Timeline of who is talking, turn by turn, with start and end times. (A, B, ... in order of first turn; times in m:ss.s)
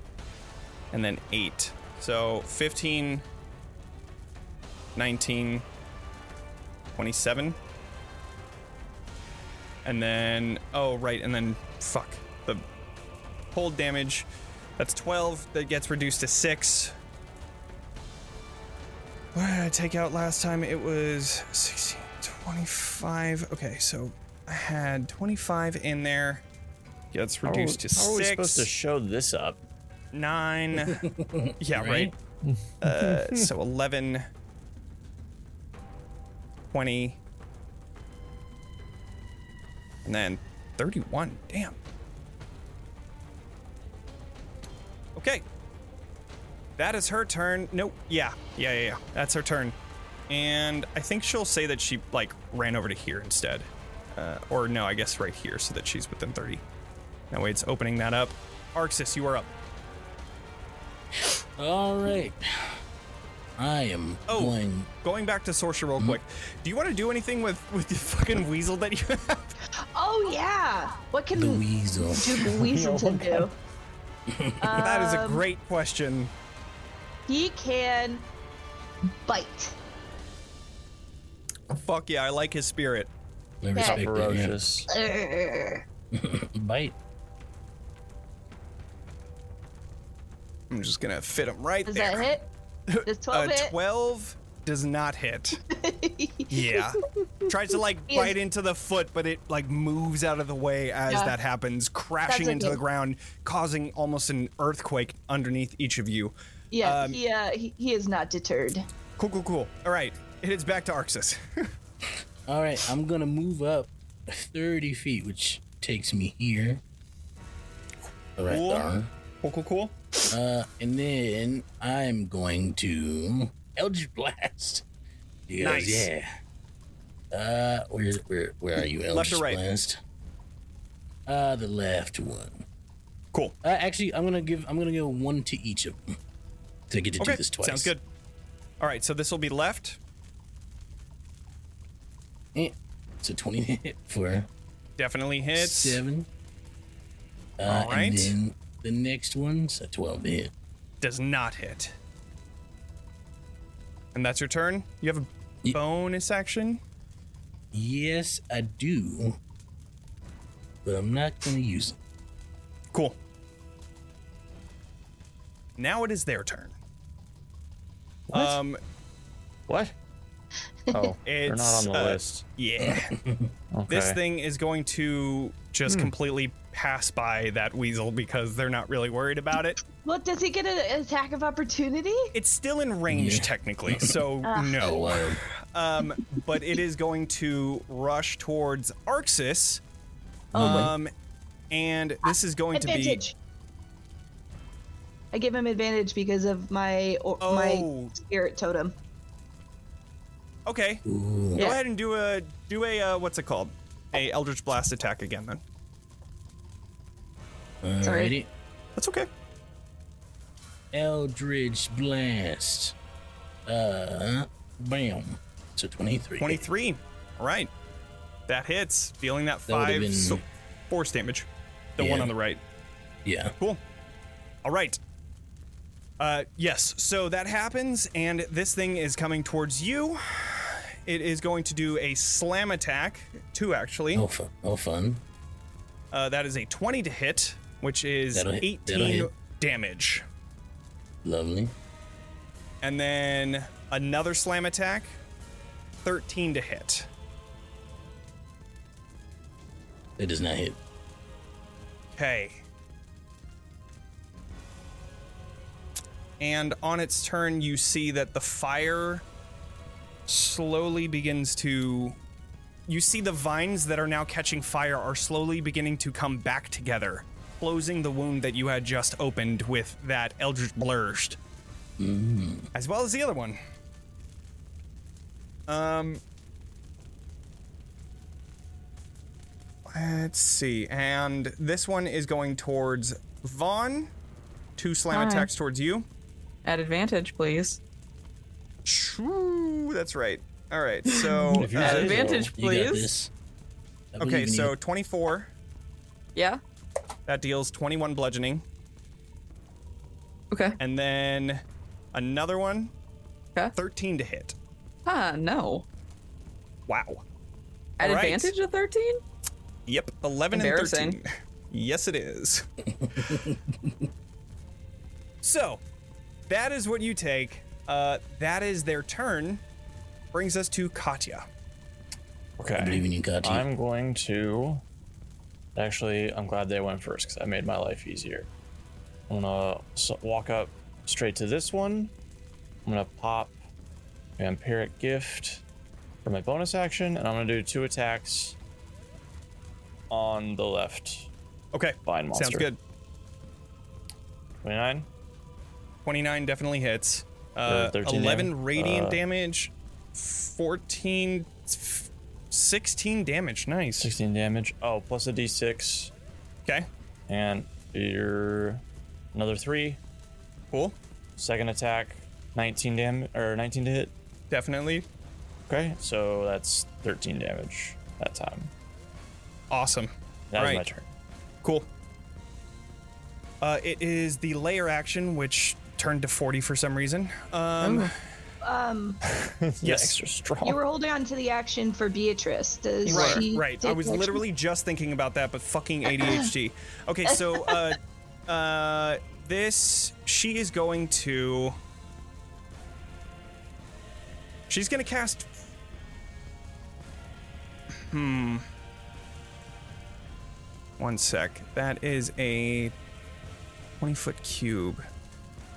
0:00.9-0:03.2 A
0:04.9-0:05.6 A
0:06.9-0:07.6 A
0:09.8-0:12.6 A
0:13.5-0:14.3 A
0:14.8-0:16.9 A
0:19.3-0:26.4 A
0:27.1-0:28.7 A
0:27.4-0:29.6 B
0:30.1-0:31.0 A
0:30.8-0:32.1 C
0:31.6-0:32.1 A
0:32.4-0:33.4 B
0:32.8-0:34.2 A
0:36.7-0:37.2 A
0:40.0-0:41.8 A
0:45.2-0:45.4 A
0:46.8-0:49.8 A
0:50.3-0:56.6 A
0:57.3-0:59.5 A
1:01.2-1:02.8 C
1:03.6-1:04.9 C
1:04.3-1:09.5 A
1:09.9-1:13.5 D
1:11.3-1:12.7 C
1:12.6-1:13.5 B
1:14.3-1:14.8 C
1:14.6-1:15.4 D
1:14.8-1:16.3 A
1:17.3-1:18.2 D
1:19.2-1:19.8 D
1:21.7-1:23.1 A
1:23.6-1:24.6 C
1:23.7-1:24.0 D
1:23.8-1:24.9 B
1:24.9-1:25.8 D
1:26.1-1:26.9 C
1:30.7-1:32.3 A
1:31.9-1:32.5 D
1:32.9-1:35.6 A
1:33.0-1:33.7 D
1:35.7-1:37.0 D
1:36.5-1:47.2 A
1:38.1-1:38.3 D
1:41.1-1:41.3 D
1:42.2-1:42.8 D
1:46.7-1:48.9 D
1:49.2-1:51.7 A
1:52.5-1:56.8 C
1:58.4-1:59.1 C
1:58.5-1:58.9 A
1:59.4-2:00.0 A
2:00.3-2:04.8 C
2:05.5-2:06.3 C
2:05.6-2:06.1 A
2:07.3-2:10.0 C
2:09.1-2:09.6 A
2:11.3-2:12.6 C
2:13.6-2:16.2 C
2:16.9-2:17.9 C
2:17.2-2:18.0 A
2:18.8-2:20.0 A
2:22.5-2:24.5 C
2:25.0-2:26.0 A
2:25.6-2:26.3 C
2:27.6-2:30.5 C
2:27.7-2:28.3 A
2:31.0-2:31.9 A
2:34.1-2:36.8 A
2:37.7-2:39.4 C
2:40.8-2:42.0 C
2:42.9-2:43.2 A
2:45.8-2:46.7 A
2:48.3-2:48.6 B
2:48.3-2:48.8 A
2:49.7-2:49.9 B
2:50.9-2:52.4 B
2:51.2-2:53.1 A
2:52.8-2:53.5 C
2:53.7-2:54.2 B
2:53.9-2:59.8 A
2:55.9-2:56.1 B
3:00.0-3:02.3 D
3:02.3-3:05.2 A
3:03.1-3:04.2 C
3:04.4-3:05.2 D
3:04.8-3:05.4 C
3:05.7-3:09.8 A
3:10.5-3:10.9 D
3:10.5-3:11.1 A
3:10.6-3:10.9 C
3:11.7-3:13.2 A
3:12.7-3:13.3 D
3:15.3-3:18.9 D
3:17.4-3:18.1 A
3:20.6-3:21.0 A
3:21.0-3:21.6 C
3:21.6-3:25.6 A
3:27.8-3:28.5 C
3:28.0-3:28.3 D
3:29.0-3:29.3 A
3:30.9-3:32.9 C
3:33.7-3:36.6 C
3:36.4-3:37.7 A
3:38.5-3:42.6 A
3:39.7-3:40.4 C
3:42.0-3:42.3 C
3:43.2-3:43.5 C
3:44.6-3:45.0 A
3:46.2-3:54.2 A
3:54.1-3:55.2 C
3:56.1-4:00.2 A
3:58.3-3:59.3 C
4:01.2-4:01.7 C
4:02.8-4:05.2 A
4:06.0-4:07.1 A
4:10.2-4:10.8 C
4:12.2-4:12.6 A
4:16.4-4:19.2 A
4:20.3-4:22.2 A
4:22.9-4:31.4 A
4:32.0-4:32.7 C
4:32.7-4:33.6 A
4:35.7-4:36.2 A
4:39.9-4:44.1 A
4:44.8-4:46.1 A
4:45.1-4:45.5 E
4:46.6-4:47.8 E
4:48.8-4:52.2 A
4:51.1-4:53.1 E
4:51.5-4:52.5 B
4:51.7-4:53.3 C
4:54.1-4:54.7 C
4:54.2-4:55.5 A
4:56.3-4:56.6 E
4:57.3-4:58.6 A
5:00.5-5:00.8 E
5:00.8-5:01.6 A
5:02.1-5:02.9 A
5:03.7-5:04.5 A
5:05.0-5:05.8 E
5:06.9-5:07.2 A
5:08.0-5:09.2 E
5:08.0-5:08.5 A
5:09.9-5:12.6 A
5:10.5-5:11.2 E
5:13.0-5:14.0 C
5:15.4-5:15.8 A
5:16.5-5:19.6 A
5:20.3-5:21.4 A
5:22.6-5:24.8 B
5:22.8-5:23.7 C
5:25.7-5:28.5 B
5:29.3-5:32.1 B
5:32.8-5:33.6 B
5:34.4-5:35.6 B
5:36.2-5:38.6 B
5:40.1-5:41.3 B
5:41.7-5:42.8 A
5:42.0-5:42.7 B
5:44.6-5:45.1 B
5:46.0-5:54.1 A
5:47.7-5:49.2 B
5:54.0-5:56.1 B
5:57.3-5:58.8 B
5:59.3-6:00.0 B
6:01.4-6:04.1 B
6:04.5-6:05.0 A
6:05.7-6:08.7 B
6:09.7-6:10.8 A
6:10.5-6:11.1 B
6:13.6-6:18.1 A
6:17.8-6:18.1 E
6:18.6-6:19.2 D
6:19.4-6:20.8 B
6:19.8-6:20.2 A
6:20.6-6:24.4 D
6:23.0-6:23.4 E
6:23.1-6:31.8 A
6:27.6-6:27.9 D
6:34.7-6:35.6 A
6:38.0-6:38.6 A
6:41.0-6:42.9 A
6:44.0-6:45.0 A